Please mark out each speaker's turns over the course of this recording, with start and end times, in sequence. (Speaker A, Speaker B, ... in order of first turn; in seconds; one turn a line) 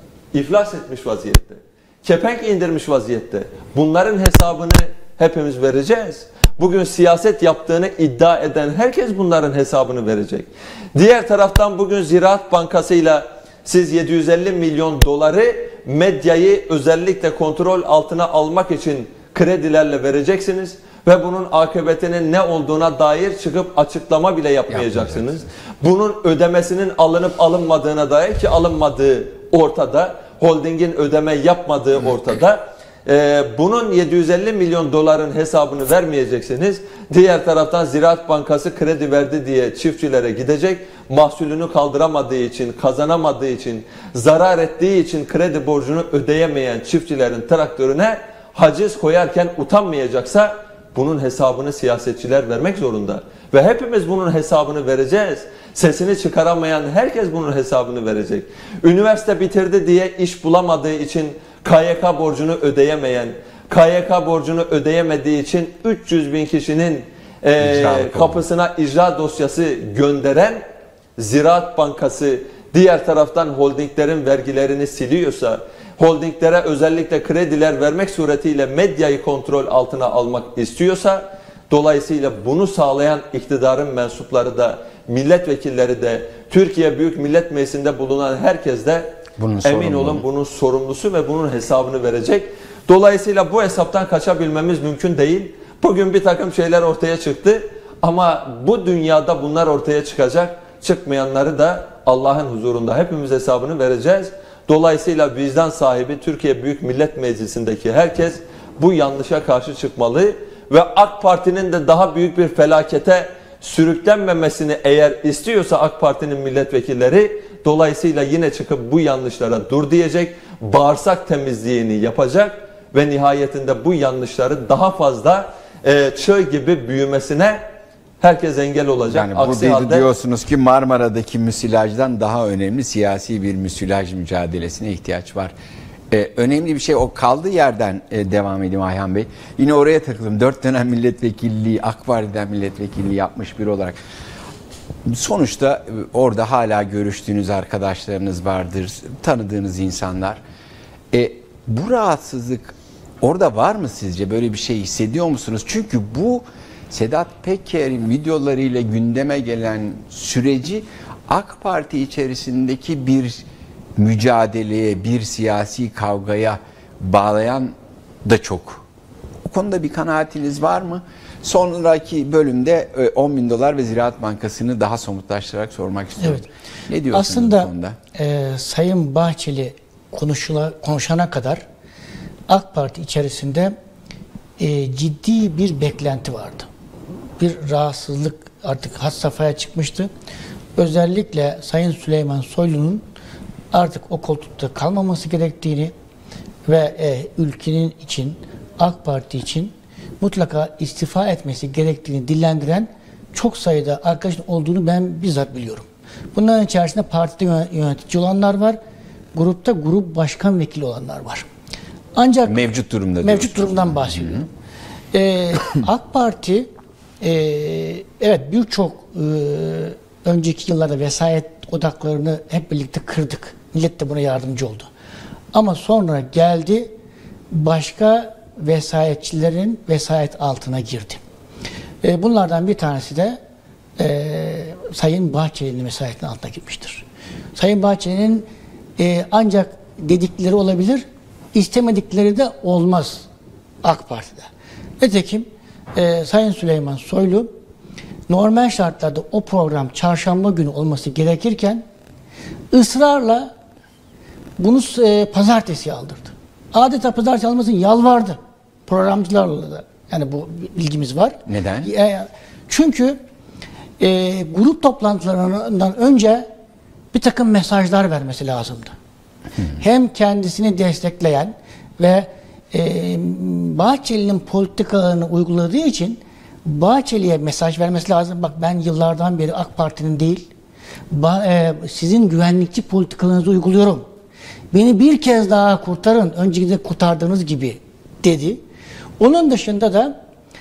Speaker A: 0.3-70.6
Speaker B: 24.7-25.3
Speaker B: 67.6-68.4
Speaker A: 71.2-127.7
Speaker B: 89.4-90.2
Speaker A: 128.2-130.1
Speaker B: 129.1-135.5
Speaker B: 136.1-144.0
Speaker B: 145.1-150.4
Speaker B: 151.1-163.4
Speaker B: 164.0-168.8
Speaker B: 169.4-178.0
Speaker C: 176.2-176.4
Speaker C: 177.1-181.6
Speaker C: 182.5-183.7
Speaker C: 184.6-186.7
Speaker C: 187.4-190.1
Speaker C: 190.8-193.0
Speaker C: 193.7-195.9
Speaker C: 196.7-208.8
Speaker C: 209.3-211.5
Speaker C: 212.2-212.6
Speaker B: 212.4-214.4
Speaker C: 213.2-214.4
Speaker C: 215.1-216.7
Speaker C: 217.2-224.9
Speaker C: 225.5-226.9
Speaker C: 227.5-231.2
Speaker C: 232.0-233.4
Speaker C: 234.0-237.0
Speaker C: 237.6-243.2
Speaker C: 243.8-244.5
Speaker C: 245.0-247.5
Speaker C: 248.3-251.8
Speaker C: 252.7-253.5
Speaker C: 254.6-263.2
Speaker B: 261.5-261.9
Speaker C: 264.0-266.5
Speaker C: 267.1-268.9
Speaker C: 269.8-280.5
Speaker C: 281.1-284.1
Speaker C: 284.7-288.6
Speaker C: 289.2-290.1